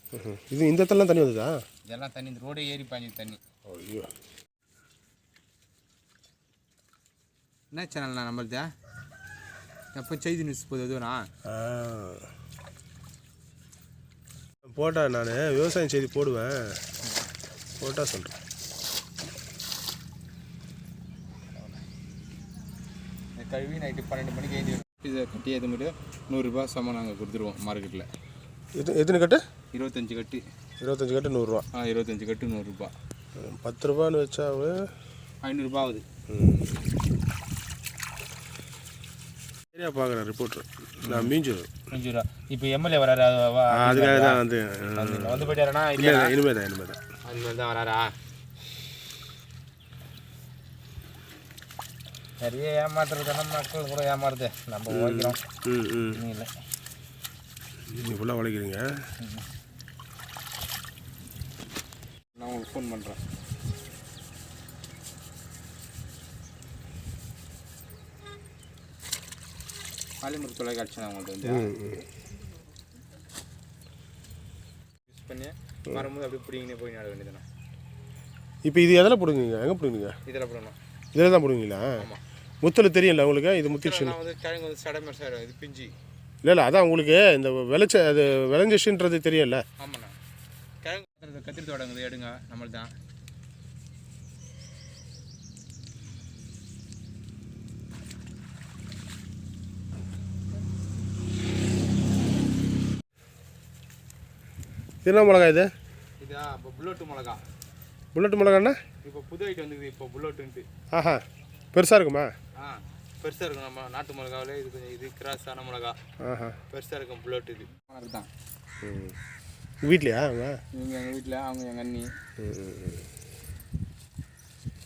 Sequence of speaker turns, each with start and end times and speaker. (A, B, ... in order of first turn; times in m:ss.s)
0:00.1-0:01.6 A
0:01.9-0:03.4 B
0:03.7-0:04.1 A
0:07.7-0:08.7 B
0:10.0-0:11.2 B
0:11.5-0:12.3 A
0:14.7-0:16.8 A
0:17.8-0:18.4 A
0:21.6-0:21.8 B
0:23.4-0:28.1 B
0:28.8-0:29.4 A
0:29.7-0:30.4 B
0:30.8-0:31.6 A
0:31.7-0:32.9 B
0:33.4-0:34.9 A
0:35.4-0:36.0 B
0:36.3-0:36.8 A
0:39.7-0:41.7 A
0:41.0-0:41.3 B
0:41.9-0:44.4 B
0:43.7-0:47.0 A
0:45.0-0:46.3 B
0:47.3-0:48.1 B
0:52.4-0:55.4 B
0:54.9-0:56.2 A
0:56.1-0:56.5 B
0:57.9-0:58.8 A
0:59.2-0:59.4 B
1:02.4-1:03.2 B
1:10.2-1:11.7 B
1:11.4-1:12.0 A
1:15.1-1:17.4 B
1:18.7-1:20.1 A
1:20.3-1:20.8 B
1:21.1-1:21.9 A
1:22.6-1:24.2 A
1:23.7-1:25.9 B
1:26.4-1:29.6 A
1:29.8-1:30.1 B
1:30.8-1:32.9 B
1:45.0-1:45.7 A
1:46.2-1:47.4 B
1:48.1-1:48.8 A
1:49.0-1:50.7 B
1:50.9-1:51.2 A
1:51.7-1:52.3 A
1:52.6-1:56.0 B
1:56.2-1:56.6 A
1:56.7-1:58.3 B
1:58.8-1:59.2 A
1:59.8-2:00.6 A
2:00.7-2:02.1 B
2:02.4-2:03.0 A